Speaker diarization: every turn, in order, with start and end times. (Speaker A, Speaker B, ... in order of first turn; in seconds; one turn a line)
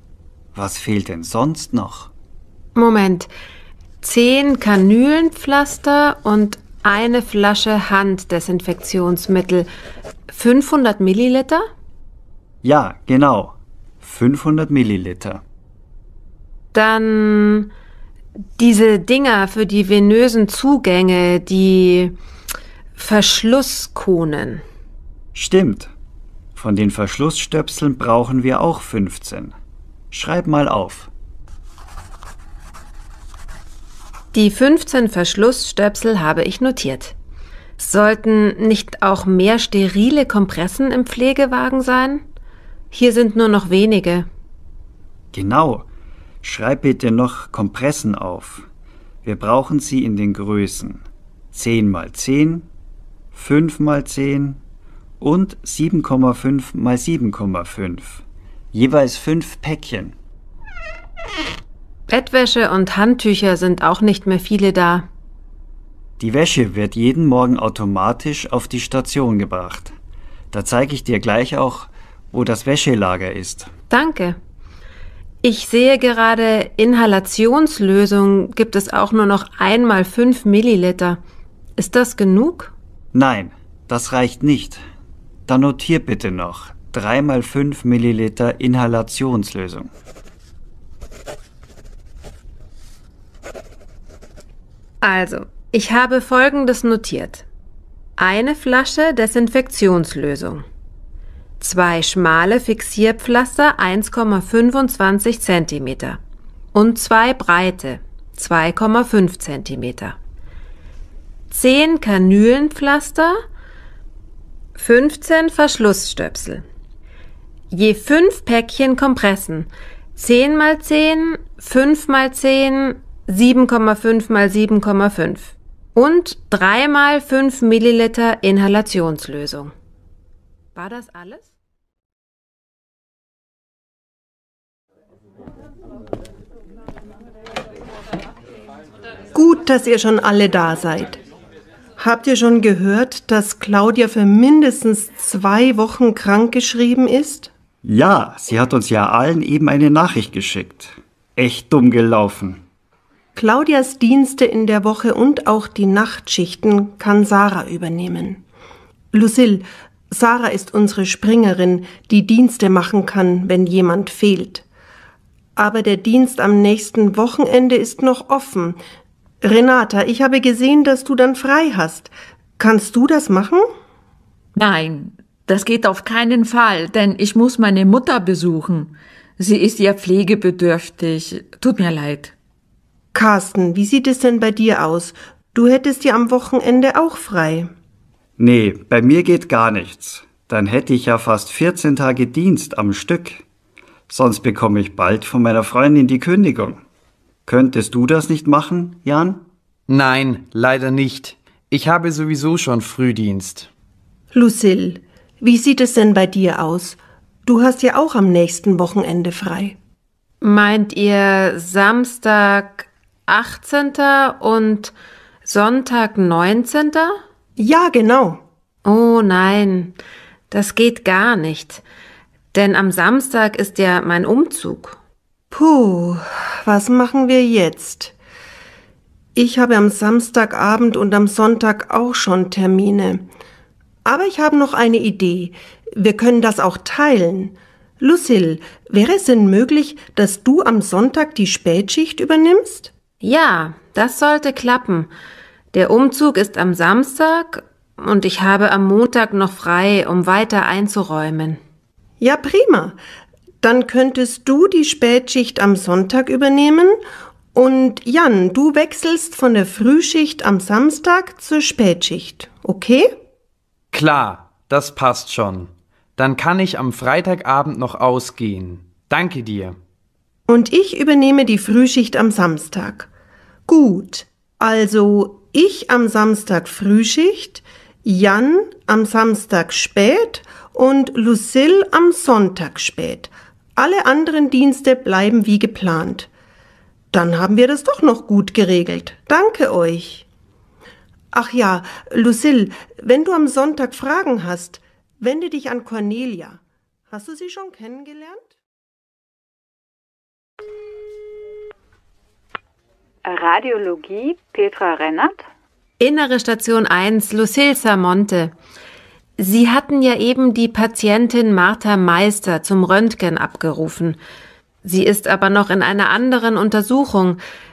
Speaker A: 0.5-2.1
Speaker B: 2.7-3.3
Speaker B: 4.0-9.7
Speaker B: 10.3-11.7
Speaker A: 12.6-15.4
Speaker B: 16.7-17.7
Speaker B: 18.6-22.1
Speaker B: 22.9-24.6
Speaker A: 25.3-25.9
Speaker A: 26.6-29.6
Speaker A: 30.1-31.1
Speaker B: 34.3-37.1
Speaker B: 37.8-42.2
Speaker B: 42.9-44.3
Speaker A: 45.3-45.9
Speaker A: 46.4-48.6
Speaker A: 49.2-52.7
Speaker A: 53.3-54.6
Speaker A: 55.2-60.1
Speaker B: 62.1-65.1
Speaker A: 66.2-69.9
Speaker A: 70.5-73.7
Speaker B: 73.9-74.4
Speaker B: 75.4-81.2
Speaker B: 81.8-82.7
Speaker A: 83.1-84.8
Speaker A: 85.5-89.9
Speaker B: 95.0-97.4
Speaker B: 98.2-100.6
Speaker B: 101.6-106.2
Speaker B: 106.7-110.2
Speaker B: 111.5-113.4
Speaker B: 114.8-116.6
Speaker B: 117.7-129.7
Speaker B: 130.7-131.5
Speaker C: 139.3-141.2
Speaker C: 142.0-147.5
Speaker A: 147.8-152.6
Speaker C: 153.3-158.4
Speaker C: 159.1-164.6
Speaker C: 165.6-168.8
Speaker C: 169.4-173.7
Speaker D: 174.6-182.3
Speaker C: 183.1-187.7
Speaker A: 188.4-193.4
Speaker A: 194.1-196.8
Speaker A: 197.4-199.4
Speaker E: 199.9-203.7
Speaker C: 204.3-209.8
Speaker B: 210.4-214.9
Speaker B: 215.4-217.2
Speaker C: 217.6-218.4
Speaker B: 218.8-220.0
Speaker B: 220.5-221.8
Speaker B: 222.5-225.0
Speaker C: 225.5-228.1
Speaker C: 229.3-233.2
Speaker C: 234.0-242.9
Speaker B: 243.2-245.1
Speaker B: 245.7-251.6
Speaker C: 252.2-253.0
Speaker C: 253.6-257.0
Speaker C: 257.5-263.1
Speaker E: 263.9-269.8
Speaker C: 270.5-273.1
Speaker C: 273.7-286.3
Speaker C: 287.1-290.2
Speaker C: 291.3-298.5
Speaker F: 303.2-305.4
Speaker B: 306.0-308.5
Speaker B: 309.4-314.2
Speaker B: 314.8-317.4